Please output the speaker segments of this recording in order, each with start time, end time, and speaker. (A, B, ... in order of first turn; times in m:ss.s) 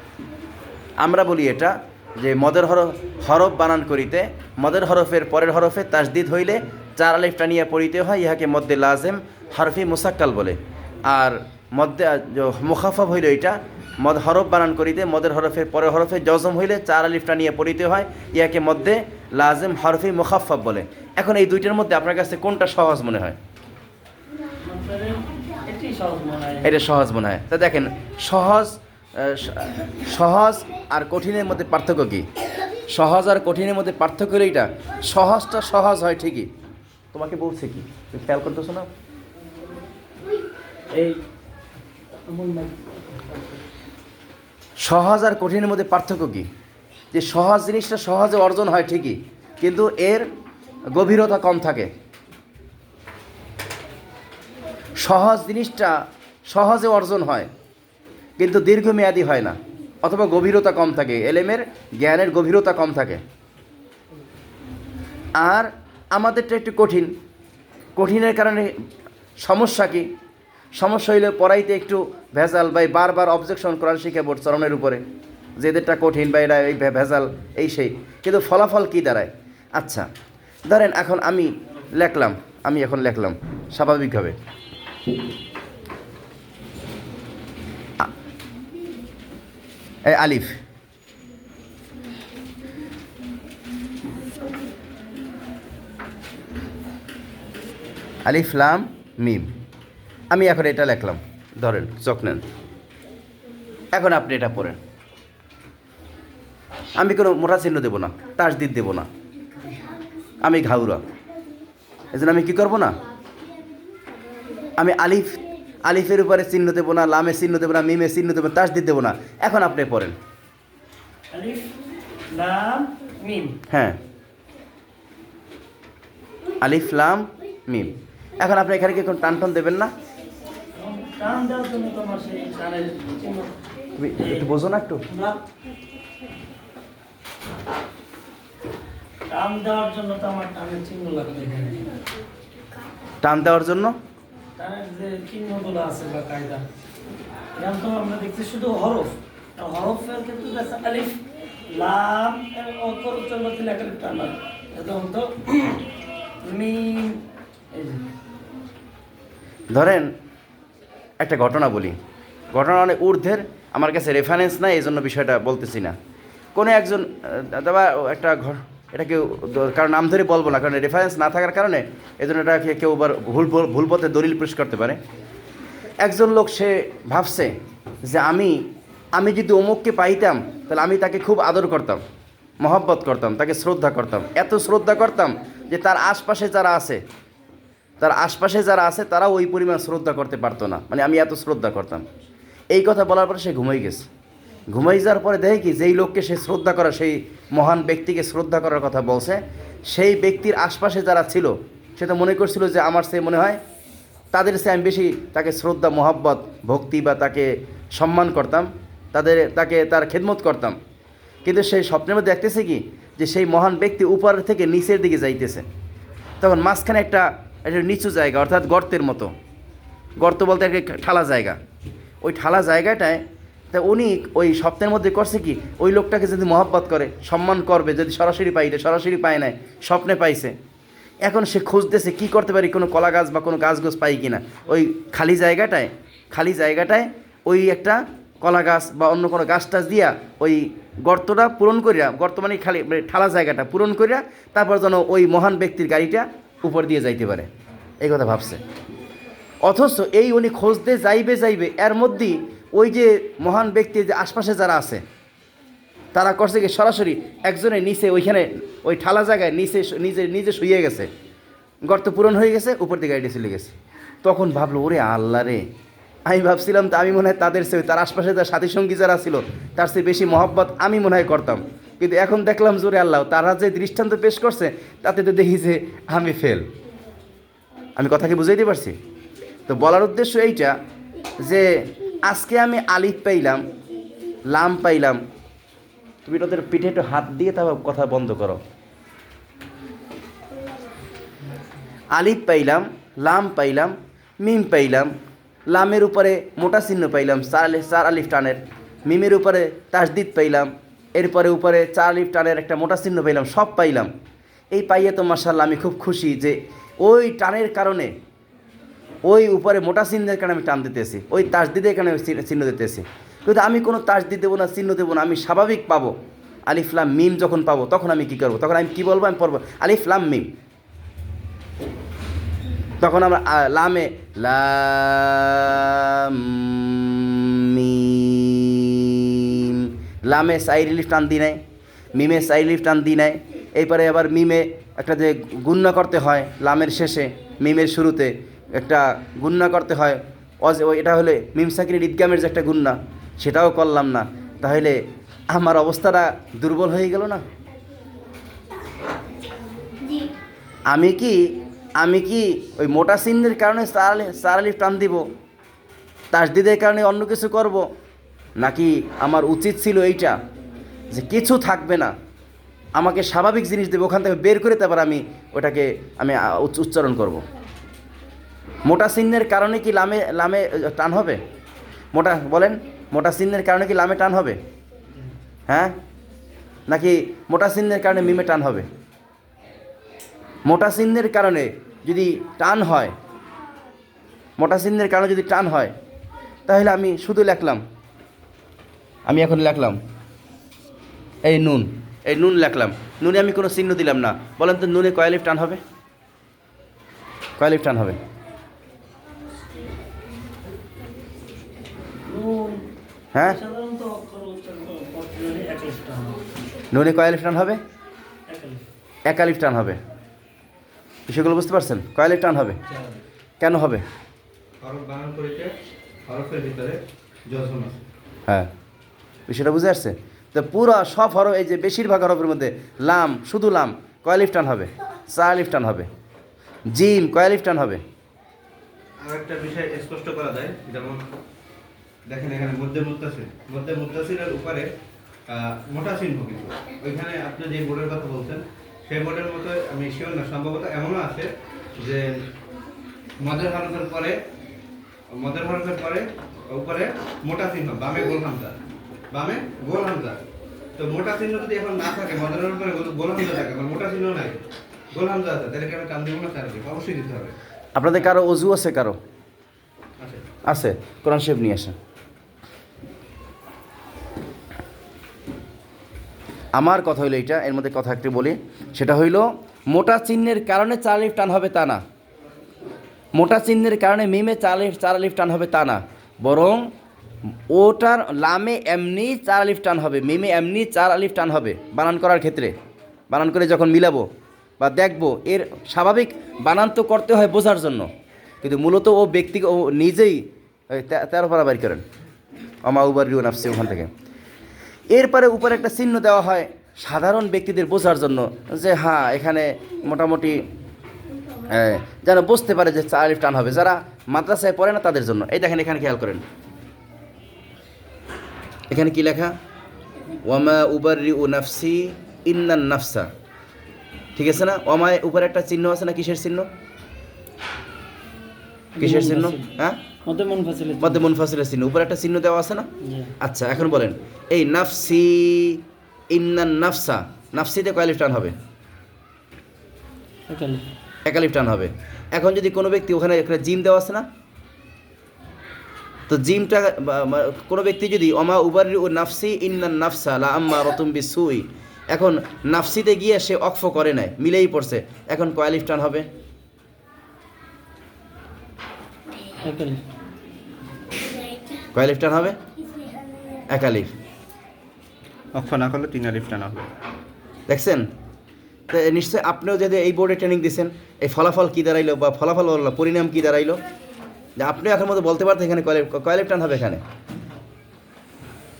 0:01.0-0:23.4 A
0:24.6-0:26.8 B
0:26.6-0:32.2 A
0:32.9-0:36.5 A
0:37.1-0:38.9 A
0:40.9-0:41.2 B
0:42.3-0:43.5 B
0:44.8-0:46.5 A
0:47.1-0:50.2 A
0:50.9-0:51.9 A
0:55.0-0:57.5 A
0:58.4-1:03.2 A
1:05.4-1:07.1 A
1:08.0-1:08.7 A
1:09.4-1:10.0 A
1:10.7-1:15.0 A
1:15.6-1:20.1 A
1:20.6-1:24.4 A
1:30.0-1:30.5 A
1:38.2-1:39.5 A
1:40.3-1:42.4 A
1:43.9-1:44.8 A
1:47.0-1:49.1 A
1:50.4-1:51.0 A
1:52.1-1:53.0 A
1:54.8-2:00.2 A
2:01.3-2:01.7 B
2:02.3-2:03.6 B
2:03.7-2:04.0 A
2:06.6-2:09.9 A
2:10.7-2:13.5 B
2:14.0-2:15.0 A
2:14.2-2:14.5 B
2:15.1-2:15.4 B
2:19.3-2:21.8 B
2:23.2-2:23.9 A
2:24.6-2:26.6 B
2:27.5-2:35.8 B
2:36.4-2:37.2 B
2:37.7-2:38.0 B
2:39.7-2:40.1 A
2:41.2-2:42.0 A
2:42.5-2:45.9 A
2:46.5-2:55.0 A
2:56.0-3:02.0 A
3:02.6-3:07.0 A
3:08.0-3:12.0 A
3:12.7-3:14.0 A
3:14.7-3:23.6 A
3:24.3-3:30.8 A
3:31.4-3:35.6 A
3:36.4-3:39.3 A
3:40.2-3:41.6 A
3:42.2-3:50.5 A
3:51.2-4:07.5 A
4:08.0-4:08.6 A
4:09.6-4:15.0 A
4:16.1-4:21.1 A
4:21.8-4:23.7 A
4:24.2-4:25.6 A
4:26.2-4:36.7 A
4:38.0-4:39.0 A
4:39.7-4:40.8 A
4:41.4-4:43.6 A
4:44.5-4:45.2 A
4:46.2-4:48.6 A
4:52.1-4:55.1 A
4:55.7-5:04.1 A
5:04.7-5:08.1 A
5:09.2-5:16.1 A
5:16.6-5:20.5 A
5:23.0-5:31.6 A
5:32.1-5:45.0 A
5:45.5-5:47.4 A
5:50.9-5:55.3 A
5:56.3-5:57.8 A
5:58.6-6:00.4 A
6:01.1-6:02.1 A
6:02.9-6:07.4 A
6:08.8-6:11.4 A
6:12.1-6:14.6 A
6:15.7-6:15.9 A
6:16.9-6:18.8 A
6:20.6-6:23.1 A
6:24.6-6:25.9 A
6:26.7-6:27.8 A
6:29.2-6:30.0 A
6:31.4-6:35.8 A
6:37.6-6:38.2 A
6:42.2-6:42.8 B
6:43.3-6:43.6 A
6:43.4-6:46.4 B
6:46.9-6:47.8 A
6:48.5-6:48.8 B
6:49.2-6:50.0 A
6:51.3-6:52.8 A
6:53.6-6:54.0 A
6:54.8-6:55.7 C
6:56.2-6:58.0 C
6:59.5-7:06.1 A
7:06.9-7:08.0 A
7:09.2-7:11.2 C
7:12.2-7:14.9 C
7:15.5-7:22.4 C
7:23.4-7:24.4 C
7:25.3-7:28.8 C
7:29.3-7:30.4 C
7:31.0-7:37.5 C
7:37.9-7:39.2 A
7:40.6-7:41.9 A
7:46.7-7:52.0 A
7:53.3-7:56.8 A
7:57.7-8:02.7 A
8:03.3-8:04.3 A
8:04.8-8:08.1 A
8:08.6-8:12.0 A
8:12.8-8:14.1 A
8:15.1-8:20.6 A
8:21.7-8:26.4 A
8:28.9-8:29.5 A
8:30.4-8:33.3 A
8:34.4-8:36.7 A
8:39.0-8:39.7 B
8:39.0-8:40.0 A
8:40.2-8:41.2 B
8:41.0-8:42.9 A
8:43.0-8:43.3 B
8:43.4-8:48.6 A
8:50.5-8:50.8 B
8:51.2-8:54.2 A
8:56.3-9:06.3 A
9:09.6-9:10.0 B
9:11.9-9:12.6 A
9:13.7-9:14.1 A
9:15.5-9:16.9 C
9:17.7-9:18.0 A
9:18.9-9:23.8 A
9:24.6-9:27.0 A